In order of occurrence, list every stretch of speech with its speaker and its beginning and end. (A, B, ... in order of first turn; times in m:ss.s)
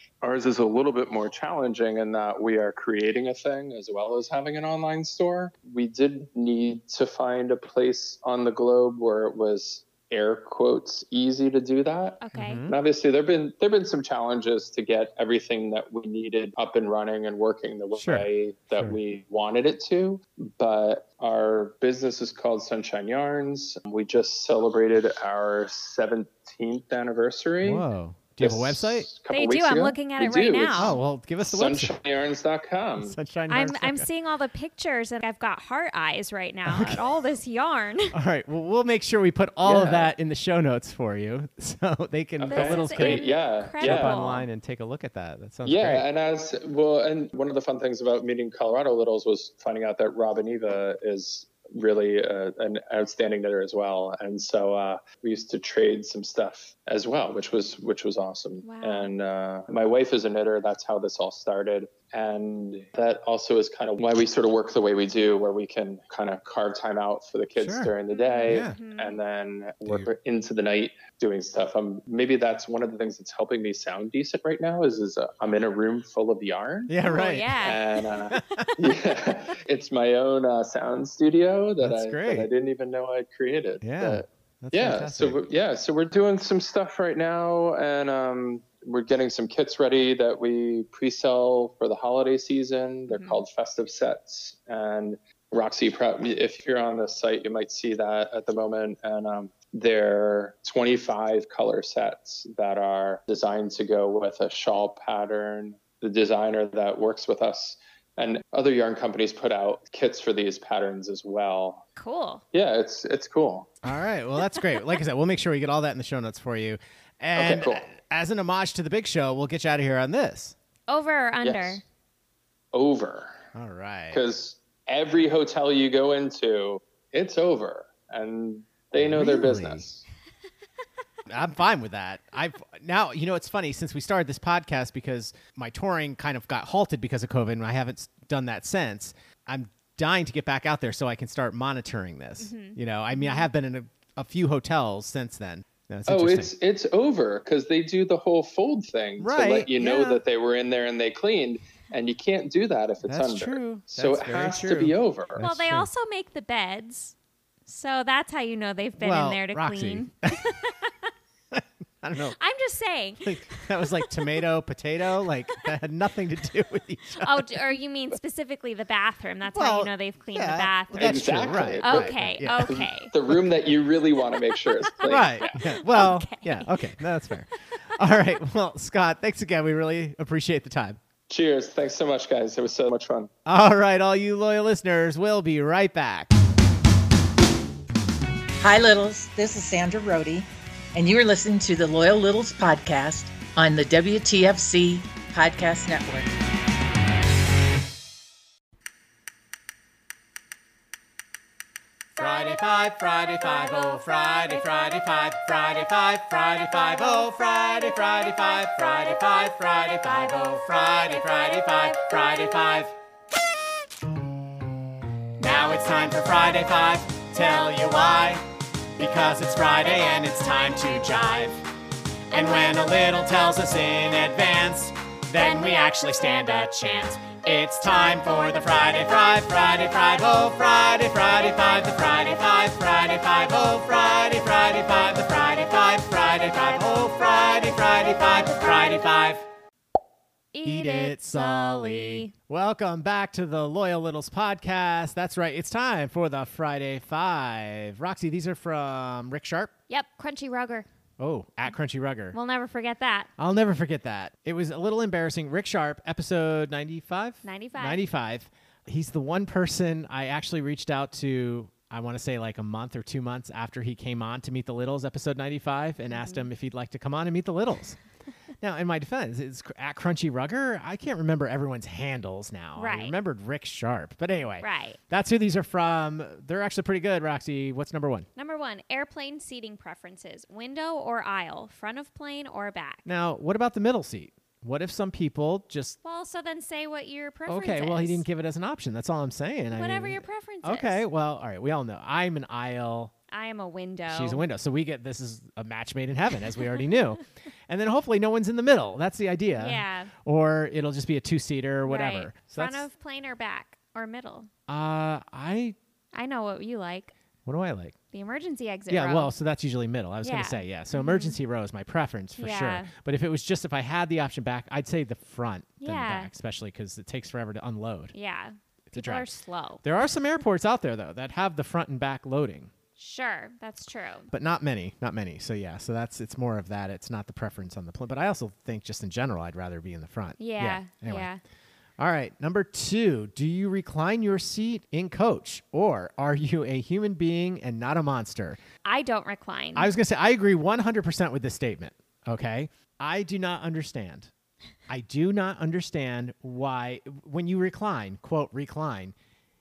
0:00.2-0:27.8 A
0:12.2-0:12.6 B
0:12.3-0:12.7 C
0:18.0-0:19.0 C
0:27.6-0:29.1 C
0:28.4-0:33.2 A
0:29.3-0:31.0 B
0:30.8-0:32.0 C
0:33.0-0:34.1 C
0:33.5-0:38.1 B
0:36.6-0:37.0 C
0:38.1-0:43.3 C
0:39.6-0:40.1 A
0:42.4-0:44.1 A
0:42.5-0:44.5 B
0:43.8-0:46.0 C
0:45.6-1:17.0 A
0:58.6-0:59.1 B
1:07.6-1:07.9 C
1:08.1-1:09.2 B
1:08.5-1:08.8 C
1:16.9-1:17.8 C
1:17.0-1:17.8 B
1:17.6-1:51.8 A
1:18.3-1:18.6 C
1:21.8-1:22.5 C
1:23.8-1:25.4 C
1:33.1-1:33.4 B
1:52.0-1:52.4 B
1:52.5-1:53.7 A
1:53.8-1:54.6 B
1:53.8-2:00.6 C
1:57.4-1:57.8 A
2:00.9-2:01.8 B
2:01.4-2:01.8 A
2:02.7-2:03.3 A
2:03.5-2:04.2 C
2:04.1-2:10.0 A
2:09.0-2:09.8 C
2:11.3-2:26.5 C
2:22.4-2:23.5 B
2:26.1-2:35.4 A
2:29.2-2:30.2 C
2:33.0-2:35.9 C
2:35.4-2:37.1 B
2:37.7-2:41.1 B
2:39.0-2:40.5 C
2:41.5-2:42.4 C
2:42.4-2:44.1 B
2:43.2-2:47.6 C
2:47.2-2:53.1 B
2:49.5-2:53.4 C
2:50.9-2:55.4 A
2:55.0-3:01.0 C
2:55.0-2:57.0 B
3:01.3-3:03.3 A
3:03.4-3:06.3 C
3:08.6-3:16.3 D
3:22.2-3:22.6 B
3:22.2-3:32.9 C
3:23.3-3:25.0 B
3:26.8-3:27.2 B
3:27.9-3:28.9 B
3:29.4-3:32.8 B
3:35.4-3:38.4 C
3:39.0-3:41.6 C
3:40.0-3:41.5 B
3:42.3-3:43.2 B
3:42.3-3:59.4 C
3:45.4-3:48.4 B
4:00.5-4:02.3 B
4:00.6-4:09.7 C
4:09.9-4:10.9 B
4:11.2-4:12.4 C
4:12.3-4:13.3 B
4:13.4-4:28.0 C
4:17.4-4:18.0 B
4:26.1-4:26.5 B
4:28.6-4:38.3 C
4:32.8-4:33.1 B
4:34.6-4:35.0 B
4:38.4-4:43.0 B
4:43.0-4:46.0 C
4:46.0-4:48.2 B
4:47.5-4:53.1 C
4:49.7-4:51.0 B
4:53.3-4:54.4 B
4:54.1-5:02.8 C
4:59.6-5:00.1 B
5:01.8-5:04.5 B
5:04.7-5:05.8 C
5:06.1-5:07.1 B
5:07.4-5:08.0 C
5:08.1-5:09.3 B
5:08.9-5:18.1 C
5:10.2-5:11.4 B
5:12.4-5:12.9 B
5:15.8-5:16.3 B
5:18.1-5:19.8 B
5:18.9-5:19.3 C
5:19.8-5:22.7 C
5:23.0-5:24.3 B
5:24.3-5:31.3 C
5:30.4-5:31.4 B
5:32.0-5:38.6 C
5:38.8-5:39.9 B
5:39.7-5:44.3 C
5:44.9-5:49.1 C